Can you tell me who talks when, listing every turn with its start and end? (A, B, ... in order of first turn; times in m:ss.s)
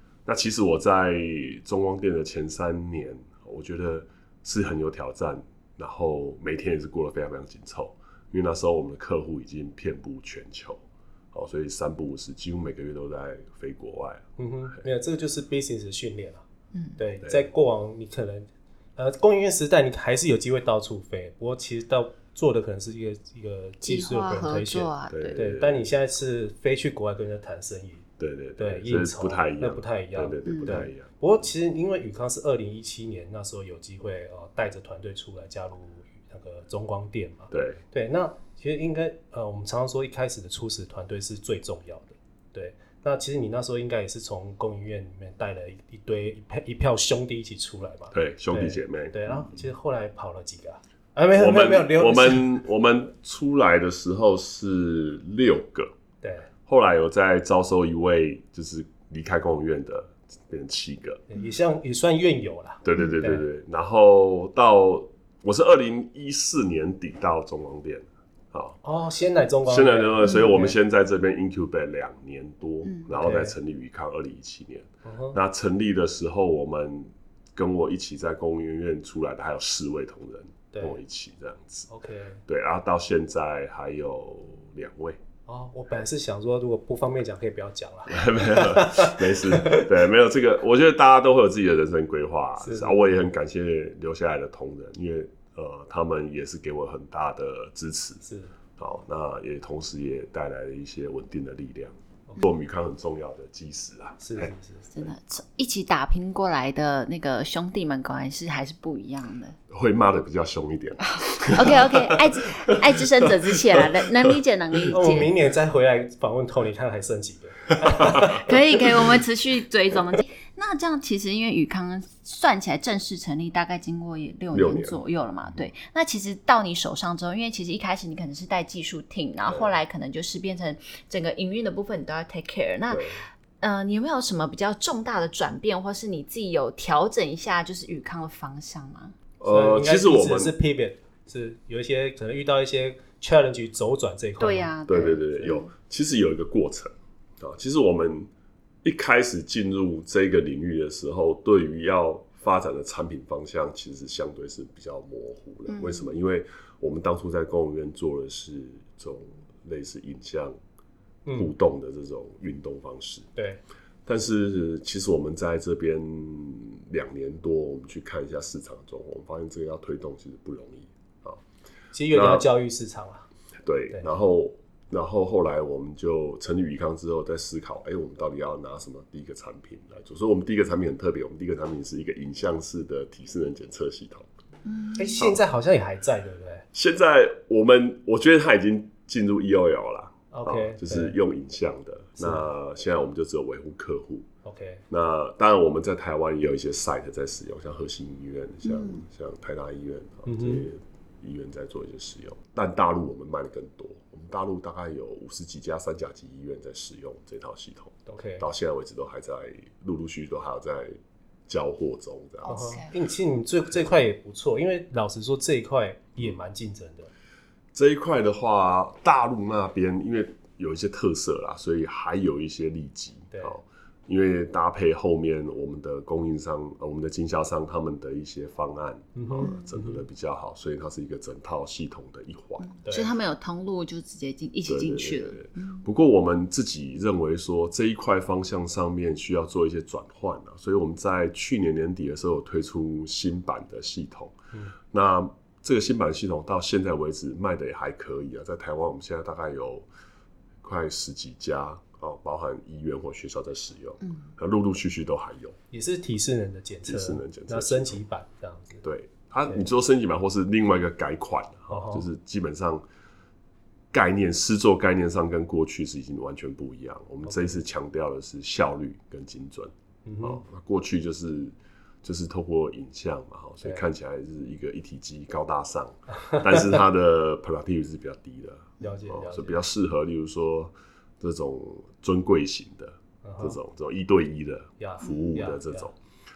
0:00.2-0:10.8 A
0:11.3-0:14.2 A
0:14.4-0:16.4 B
0:16.7-0:17.0 C
0:17.0-0:28.0 B
0:17.2-0:17.5 A
0:23.8-0:25.4 C
0:25.1-0:25.8 A
0:28.2-0:31.1 A
0:28.6-0:52.6 B
0:30.4-0:30.9 C
0:37.5-0:37.8 A
0:48.1-0:49.6 A
0:51.3-0:55.9 A
0:56.2-0:56.5 B
0:56.7-1:01.2 A
1:01.3-1:03.4 B
1:02.8-1:08.8 A
1:08.8-1:10.7 B
1:09.6-1:21.9 A
1:13.2-1:13.5 B
1:15.0-1:15.4 B
1:20.7-1:21.0 B
1:21.9-1:22.4 B
1:22.5-1:25.2 A
1:25.5-1:29.9 B
1:28.1-1:38.2 A
1:32.6-1:33.2 B
1:38.2-1:38.5 B
1:38.8-1:44.5 A
1:44.2-1:44.9 B
1:44.9-1:49.6 C
1:49.7-1:55.0 A
1:51.1-1:55.3 C
1:54.9-1:58.4 B
1:58.3-2:13.1 C
2:04.5-2:05.0 A
2:09.5-2:09.7 A
2:12.9-2:13.2 A
2:13.6-2:19.1 C
2:19.4-2:20.5 A
2:19.4-2:24.7 B
2:24.4-2:25.7 C
2:24.8-2:28.3 A
2:28.8-2:40.5 A
2:35.7-2:36.1 C
2:41.2-2:41.5 B
2:41.3-2:43.3 A
2:43.4-2:43.6 B
2:44.0-2:51.4 A
2:51.9-2:53.2 B
2:52.1-2:52.5 A
2:53.6-3:04.3 A
3:04.6-3:05.2 C
3:05.0-3:06.6 B
3:06.7-3:14.3 A
3:10.3-3:11.2 B
3:12.2-3:12.5 B
3:14.4-3:14.8 B
3:14.9-3:31.0 A
3:18.6-3:19.0 C
3:20.2-3:20.7 B
3:28.1-3:28.4 B
3:31.5-3:32.7 A
3:32.4-3:32.9 C
3:32.4-3:37.1 B
3:37.7-3:52.7 A
3:43.3-3:43.6 B
3:49.1-3:50.0 B
3:49.4-3:49.7 C
3:52.6-3:55.8 C
3:52.8-3:53.1 B
3:54.7-4:04.3 A
4:04.9-4:09.9 A
4:10.6-4:15.6 A
4:15.7-4:18.8 B
4:16.8-4:18.0 A
4:18.8-4:22.8 A
4:21.7-4:22.0 B
4:23.9-4:45.9 A
4:27.2-4:27.6 B
4:30.0-4:30.4 B
4:38.8-4:39.6 B
4:43.2-4:43.6 B
4:44.8-4:45.9 B